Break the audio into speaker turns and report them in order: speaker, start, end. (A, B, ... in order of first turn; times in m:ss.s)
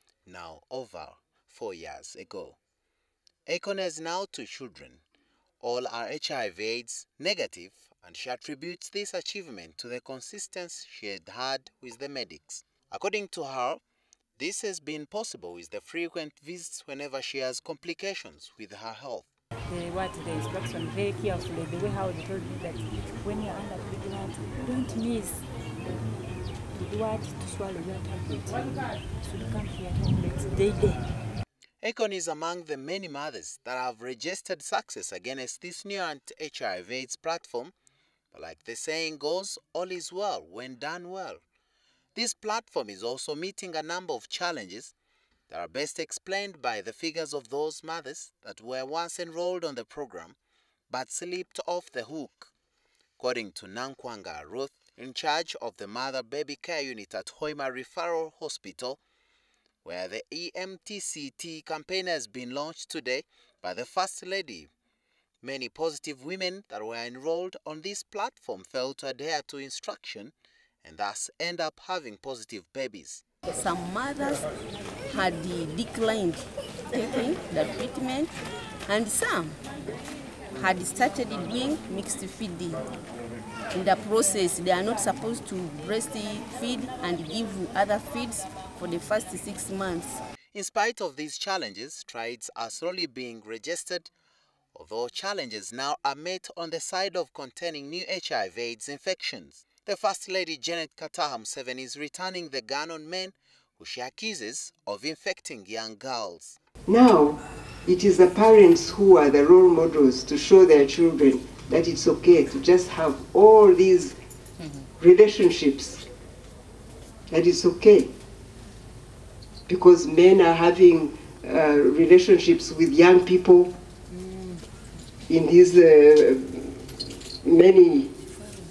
0:00.3-0:02.6 A
0:03.5-0:05.0 A
0:05.6-0:13.8 A
0:14.4-0:19.3 A
0:19.7-0:25.5 B
0:26.7-0:31.2 B
0:31.8-0:37.7 A
0:38.3-0:41.4 A
0:42.2-0:44.9 A
0:45.5-0:50.4 A
0:50.9-0:52.5 A
0:53.2-0:59.0 A
0:59.8-1:04.7 A
1:05.4-1:10.3 A
1:10.8-1:13.2 A
1:13.5-1:14.4 C
1:15.1-1:18.3 C
1:18.9-1:19.6 C
1:20.6-1:22.8 C
1:23.7-1:30.2 C
1:30.5-1:34.1 A
1:34.8-1:46.6 A
1:46.9-1:54.2 D
1:55.0-1:56.0 D
1:57.3-1:58.1 D
1:59.7-2:03.7 D
2:05.3-2:08.1 D